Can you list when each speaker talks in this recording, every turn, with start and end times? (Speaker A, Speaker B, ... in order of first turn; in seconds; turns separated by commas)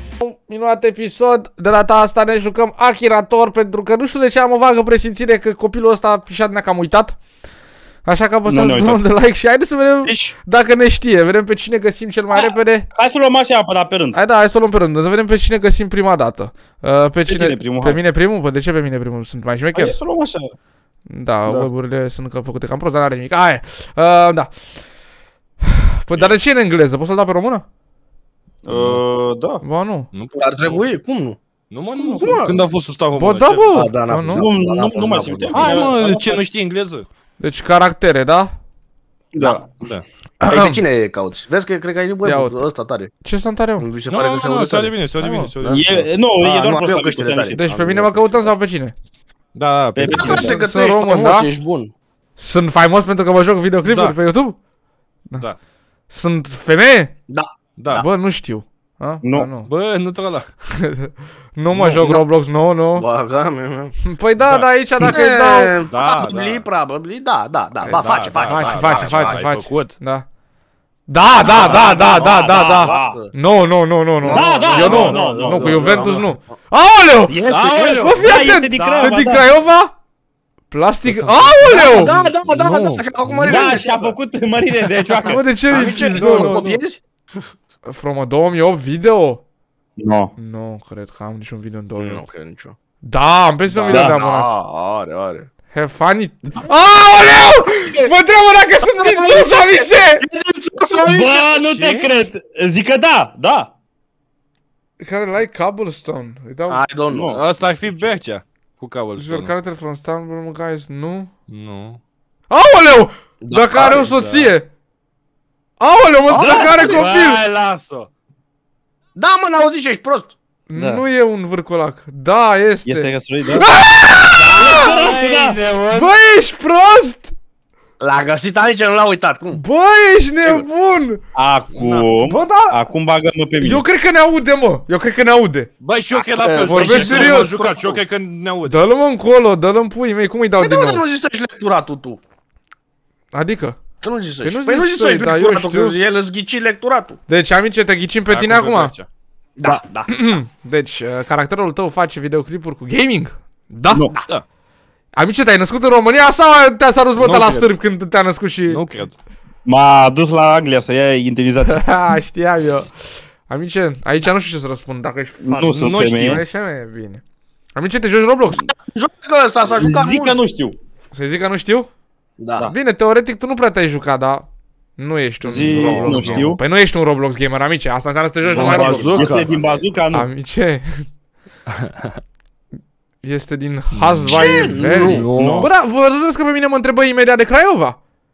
Speaker A: 0.2-7.2, Speaker A: 8.0-12.9, Speaker B: 8.4-9.0, Speaker C: 10.0-10.3, Speaker B: 12.3-14.2, Speaker A: 14.1-19.9, Speaker B: 17.3-18.0, Speaker B: 19.7-20.5, Speaker A: 21.1-24.5, Speaker A: 25.6-27.6, Speaker B: 28.6-29.6, Speaker D: 28.7-29.0, Speaker A: 29.6-30.1, Speaker D: 30.1-30.8, Speaker C: 30.3-31.4, Speaker D: 31.7-33.9, Speaker B: 32.0-32.4, Speaker C: 32.2-32.6, Speaker A: 33.1-34.5, Speaker C: 33.7-35.9, Speaker B: 34.3-36.4, Speaker D: 35.5-37.0, Speaker A: 37.4-38.5, Speaker B: 39.3-39.6, Speaker D: 39.8-40.0, Speaker A: 40.4-40.8, Speaker C: 40.4-43.1, Speaker A: 42.2-42.7, Speaker A: 43.2-43.9, Speaker C: 43.8-44.9, Speaker D: 44.1-46.1, Speaker A: 45.2-45.5, Speaker B: 45.7-48.0, Speaker C: 46.4-47.6, Speaker A: 47.5-48.9, Speaker D: 47.7-48.1, Speaker D: 49.5-50.5, Speaker B: 49.9-50.5, Speaker C: 50.1-51.9, Speaker A: 50.1-51.5, Speaker A: 52.4-54.6, Speaker D: 53.8-54.1, Speaker A: 56.1-57.1, Speaker C: 57.3-58.1, Speaker D: 57.8-58.0, Speaker A: 57.9-59.7, Speaker B: 59.2-59.5, Speaker D: 59.6-60.5, Speaker A: 60.8-63.0, Speaker C: 61.8-62.2, Speaker C: 63.0-63.9, Speaker A: 64.0-65.8, Speaker D: 64.4-64.7, Speaker C: 65.1-69.4, Speaker D: 65.9-66.6, Speaker D: 67.9-70.0, Speaker A: 68.4-70.2, Speaker A: 71.1-79.9, Speaker C: 71.4-73.3, Speaker B: 71.5-73.2, Speaker C: 74.2-76.2, Speaker B: 74.3-75.9, Speaker D: 74.7-76.3, Speaker D: 77.4-79.1, Speaker B: 77.4-79.5, Speaker A: 80.7-82.1, Speaker D: 81.0-83.8, Speaker C: 81.7-84.2, Speaker B: 83.4-85.4, Speaker C: 85.2-87.4, Speaker A: 85.3-86.6, Speaker D: 85.7-86.8, Speaker A: 87.8-89.4, Speaker B: 90.0-90.3, Speaker A: 90.4-92.2, Speaker C: 91.9-92.7, Speaker A: 93.0-94.6, Speaker C: 93.8-95.5, Speaker A: 95.7-100.2, Speaker C: 98.8-101.4, Speaker B: 101.0-103.7, Speaker D: 101.5-102.2, Speaker A: 105.0-106.8, Speaker C: 106.7-107.4, Speaker B: 107.1-107.4, Speaker D: 107.3-109.5, Speaker A: 109.2-111.3, Speaker D: 111.5-112.0, Speaker A: 112.5-114.7, Speaker C: 113.4-114.1, Speaker D: 113.9-114.5, Speaker A: 115.8-117.4, Speaker C: 116.3-117.0, Speaker B: 116.4-117.1, Speaker D: 116.7-118.1, Speaker C: 119.1-120.3, Speaker A: 120.7-125.1, Speaker B: 120.7-121.0, Speaker B: 122.8-123.7, Speaker B: 124.4-125.6, Speaker D: 124.5-126.1, Speaker A: 125.9-127.3, Speaker C: 128.0-129.6, Speaker A: 129.5-131.2, Speaker B: 131.3-133.8, Speaker D: 131.7-132.1, Speaker A: 132.2-132.8, Speaker A: 133.6-135.7, Speaker D: 135.8-138.8, Speaker C: 136.1-138.0, Speaker B: 136.5-136.9, Speaker A: 136.6-137.7, Speaker A: 138.6-141.0, Speaker C: 140.6-142.2, Speaker A: 143.3-143.8, Speaker C: 144.0-147.2, Speaker A: 144.4-145.9, Speaker A: 147.3-148.9, Speaker D: 148.3-149.1, Speaker C: 149.6-150.2, Speaker A: 150.1-154.1, Speaker A: 155.1-158.8, Speaker D: 157.2-157.7, Speaker D: 158.7-159.1, Speaker B: 159.6-161.8, Speaker A: 161.6-162.9, Speaker A: 163.4-167.2, Speaker B: 165.4-166.4, Speaker D: 165.7-166.4, Speaker A: 167.8-168.6, Speaker C: 168.8-170.4, Speaker B: 169.7-170.8, Speaker A: 171.1-171.9, Speaker C: 172.4-172.7, Speaker A: 172.7-179.4, Speaker B: 175.4-176.6, Speaker D: 175.6-176.4, Speaker D: 178.5-179.5, Speaker B: 178.5-180.3, Speaker C: 178.6-179.2, Speaker A: 180.1-181.1, Speaker D: 181.8-182.1, Speaker A: 183.2-188.0, Speaker D: 183.9-185.7, Speaker C: 184.3-185.3, Speaker B: 185.2-185.7